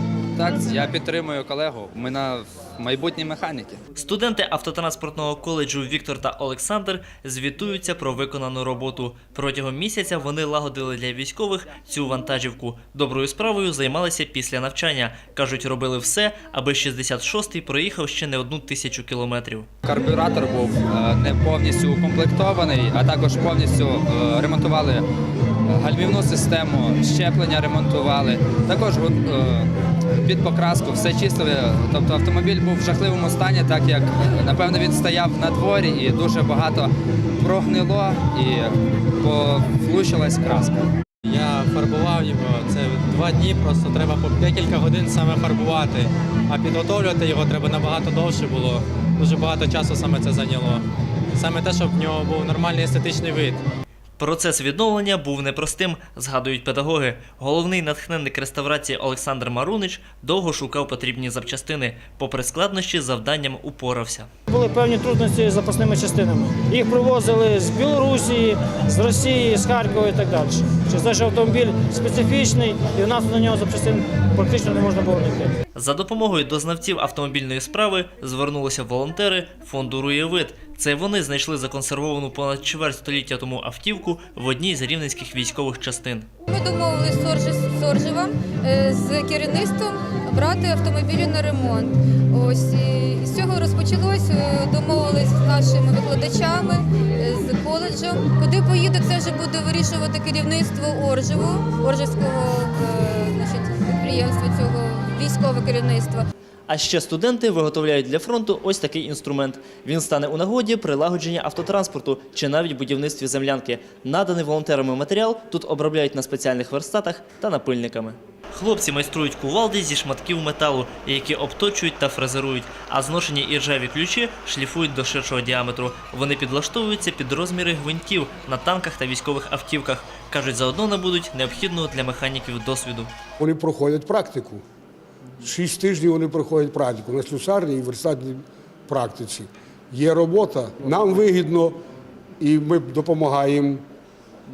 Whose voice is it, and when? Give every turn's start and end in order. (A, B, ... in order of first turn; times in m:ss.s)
0:00.4-0:03.8 A
0:03.9-0:19.7 B
0:19.8-0:25.0 A
0:25.6-0:29.7 A
0:30.2-0:40.9 A
0:41.2-0:50.8 C
0:51.4-0:53.6 C
0:54.2-1:04.3 B
1:04.5-1:15.5 D
1:15.7-1:26.3 B
1:26.5-1:46.3 E
1:46.7-2:13.1 B
2:13.4-2:14.6 F
2:15.4-2:21.8 F
2:22.4-2:23.8 F